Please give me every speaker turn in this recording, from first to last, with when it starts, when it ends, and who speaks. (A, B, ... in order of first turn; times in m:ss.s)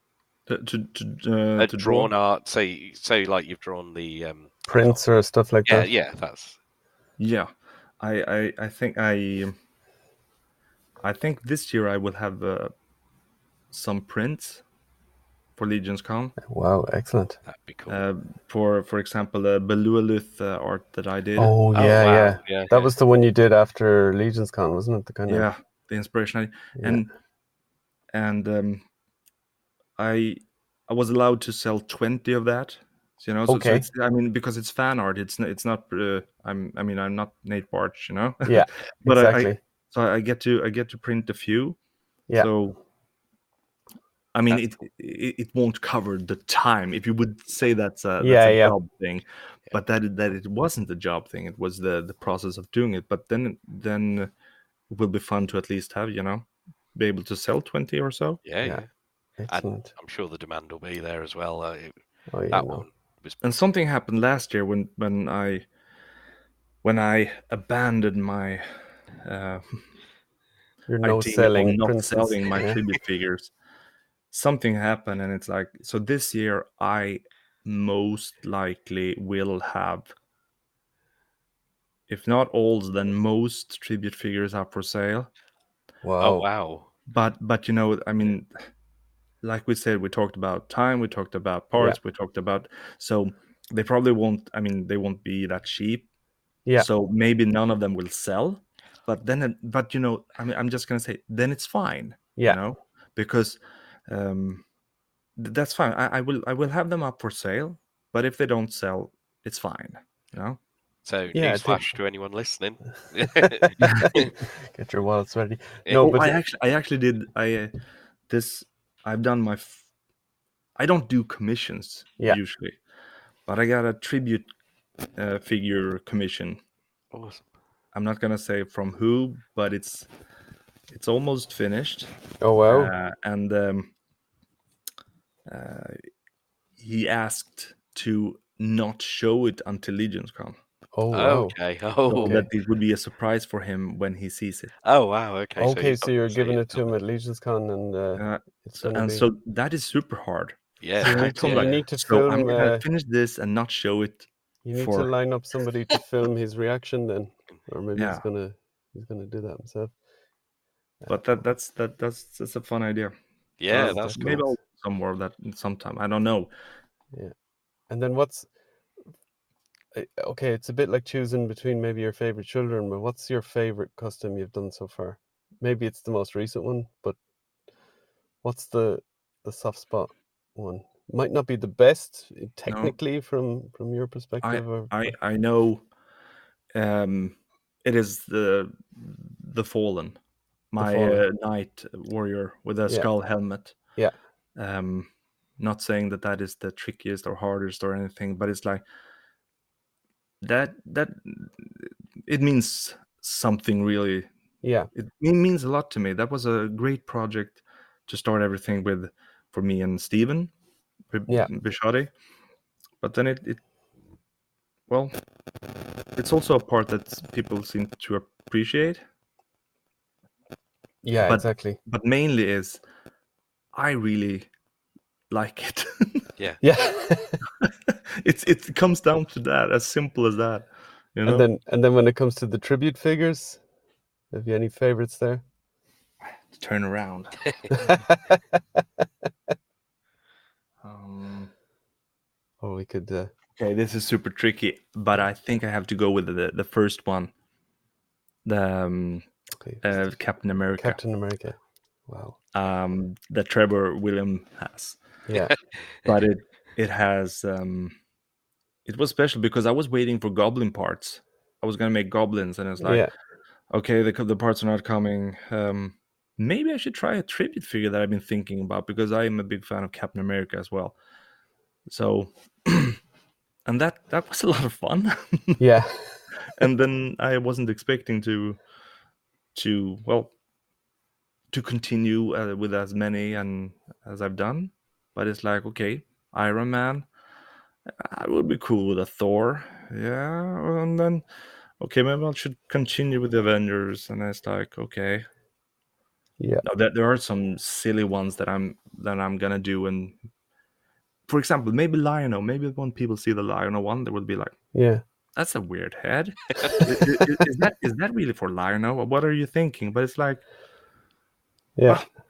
0:00.5-0:02.1 A
0:01.6-0:05.0 B
0:04.7-0:05.9 C
0:05.7-0:06.6 B
0:07.2-0:09.6 A
0:11.0-0:12.7 A
0:13.7-0:14.6 A
0:15.6-0:16.4 A
0:16.4-0:17.4 C
0:17.4-0:18.0 B
0:17.9-0:22.0 A
0:21.4-0:25.5 C
0:21.7-0:22.9 B
0:25.3-0:27.1 A
0:26.8-0:27.1 C
0:28.1-0:28.9 A
0:30.0-0:41.8 A
0:33.5-0:33.9 C
0:38.4-0:39.6 C
0:42.3-0:42.8 A
0:44.3-0:54.3 A
0:48.2-0:48.8 C
0:54.9-0:58.4 A
0:58.4-0:58.9 B
0:59.4-0:59.9 C
0:59.5-1:02.0 B
1:02.3-1:02.9 C
1:02.5-1:03.6 B
1:03.4-1:05.7 A
1:06.8-1:09.9 A
1:10.9-1:12.8 C
1:11.0-1:13.5 A
1:14.3-1:20.1 A
1:22.1-1:25.3 A
1:26.0-1:26.5 C
1:26.2-1:26.9 B
1:27.1-1:28.7 A
1:29.4-1:36.1 A
1:36.8-1:44.6 A
1:45.4-1:50.6 A
1:51.0-1:54.3 B
1:51.3-1:52.0 C
1:53.8-1:56.3 C
1:53.8-1:54.1 A
1:55.9-1:56.2 B
1:56.0-1:57.7 A
1:58.3-1:59.9 A
2:00.8-2:02.8 A
2:03.5-2:04.5 A
2:05.2-2:06.6 A
2:07.1-2:07.5 B
2:07.9-2:10.1 A
2:10.9-2:12.1 A
2:12.4-2:12.9 C
2:12.7-2:13.9 A
2:15.5-2:16.1 A
2:16.8-2:20.6 A
2:21.0-2:21.6 C
2:21.1-2:22.4 B
2:22.1-2:24.7 A
2:22.2-2:22.5 C
2:24.8-2:26.9 B
2:25.6-2:29.3 C
2:28.2-2:35.1 A
2:30.8-2:31.8 B
2:31.0-2:32.8 C
2:34.6-2:40.0 C
2:38.0-2:38.2 A
2:41.0-2:41.4 C
2:41.1-2:43.1 A
2:43.6-2:44.4 B
2:43.7-2:46.5 A
2:43.7-2:44.6 C
2:47.9-2:48.5 C
2:49.9-2:57.2 C
2:58.4-3:04.9 C
3:02.7-3:03.0 A
3:04.4-3:05.9 A
3:06.8-3:10.2 A
3:10.7-3:14.0 A
3:10.8-3:11.2 C
3:14.6-3:18.8 A
3:20.4-3:24.3 A
3:24.6-3:24.9 C
3:24.9-3:30.5 A
3:31.1-3:32.1 A
3:33.0-3:33.6 A
3:34.9-3:35.1 A
3:36.2-3:39.0 A
3:41.0-3:41.8 C
3:41.2-3:42.8 A
3:43.7-3:44.5 A
3:45.3-3:46.3 A
3:46.6-3:47.4 C
3:47.6-3:51.5 A
3:51.2-3:53.6 C
3:54.3-3:55.4 C
3:56.5-3:58.0 A
3:57.7-3:58.4 C
4:00.8-4:01.5 A
4:02.6-4:03.3 C
4:03.6-4:07.3 A
4:08.4-4:09.3 A
4:09.6-4:10.2 C
4:09.8-4:11.0 A
4:10.8-4:12.4 C
4:12.5-4:15.0 A
4:15.3-4:15.5 C
4:16.0-4:18.0 A
4:18.8-4:23.1 A
4:22.8-4:23.1 C
4:23.7-4:31.0 A
4:31.9-4:33.0 A
4:33.7-4:35.6 A
4:35.6-4:36.4 C
4:36.5-4:38.6 A
4:39.5-4:40.3 A
4:41.5-4:47.1 A
4:47.9-4:51.2 A
4:51.8-4:55.3 A
4:56.4-4:56.6 C
4:56.6-5:00.2 A
5:01.3-5:04.7 A
5:04.7-5:05.0 C
5:05.4-5:10.5 A
5:11.8-5:12.0 C